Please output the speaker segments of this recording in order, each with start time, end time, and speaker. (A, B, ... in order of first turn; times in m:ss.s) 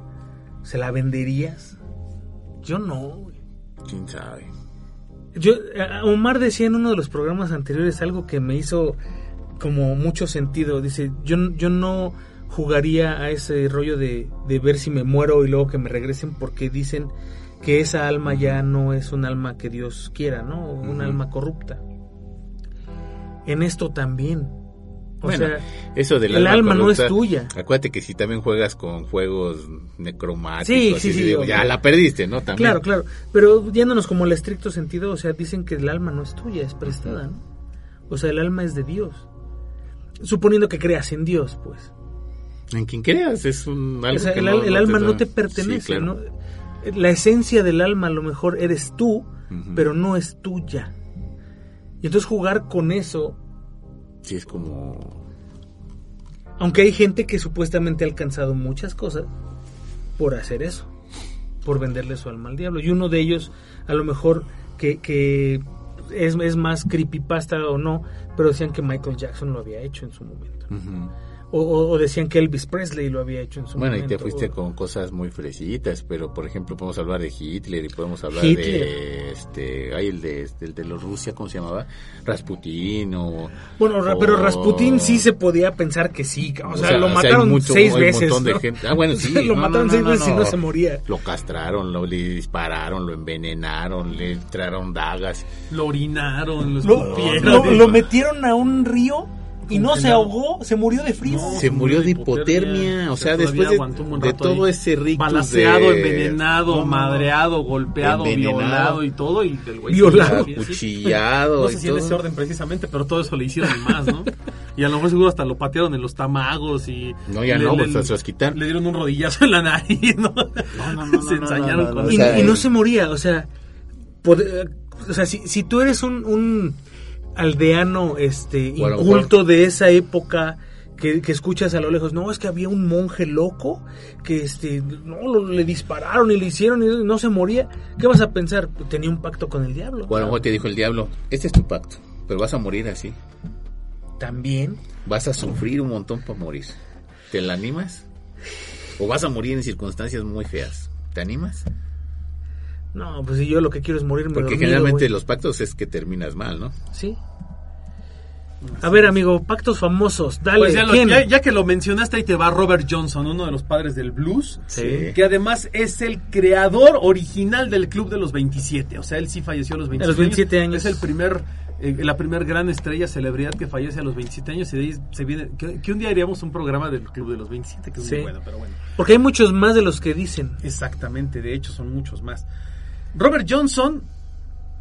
0:00.6-0:01.8 A
0:02.6-0:03.4 A
0:03.8-0:04.5 B
0:05.4-0:09.0 A
0:09.6-0:21.8 A
0:18.3-0:18.6 B
0:20.8-0:21.2 B
0:23.5-0:24.6 A
0:25.2-0:25.7 A
0:25.2-0:32.8 B
0:26.3-0:27.5 A
0:30.6-0:31.7 A
0:32.6-0:37.4 A
0:36.8-0:37.2 B
0:38.1-0:39.3 A
0:40.2-0:41.9 A
0:42.7-0:46.1 B
0:44.1-0:46.3 A
0:46.8-0:50.9 A
0:49.5-0:49.9 B
0:52.0-0:53.4 A
0:54.2-0:55.2 B
0:56.6-0:59.3 A
1:00.2-1:00.9 A
1:01.6-1:10.7 A
1:10.7-1:11.1 B
1:11.5-1:14.5 A
1:13.8-1:25.3 B
1:18.3-1:18.9 A
1:23.8-1:31.0 A
1:26.6-1:35.5 B
1:35.7-1:38.0 C
1:36.8-1:41.6 A
1:37.0-1:38.0 B
1:39.7-1:40.3 C
1:41.2-2:02.6 C
1:41.5-1:47.3 B
1:48.0-1:49.0 B
1:49.9-1:50.6 A
1:50.0-1:52.2 B
1:57.3-1:58.6 B
2:00.7-2:02.7 B
2:02.1-2:03.5 A
2:04.2-2:06.8 A
2:07.4-2:20.4 A
2:08.8-2:09.4 B
2:20.1-2:23.2 B
2:24.2-2:24.8 A
2:25.0-2:26.8 B
2:27.3-2:28.1 B
2:29.0-2:31.7 B
2:32.9-2:35.1 A
2:34.3-2:36.8 B
2:36.9-2:37.2 A
2:38.6-2:39.1 C
2:38.8-2:41.3 A
2:40.6-2:58.8 C
2:44.7-2:45.1 A
2:44.7-2:45.2 B
2:50.0-2:51.0 A
2:58.0-2:58.3 A
2:59.0-3:00.6 A
3:00.6-3:02.5 C
3:03.1-3:04.1 C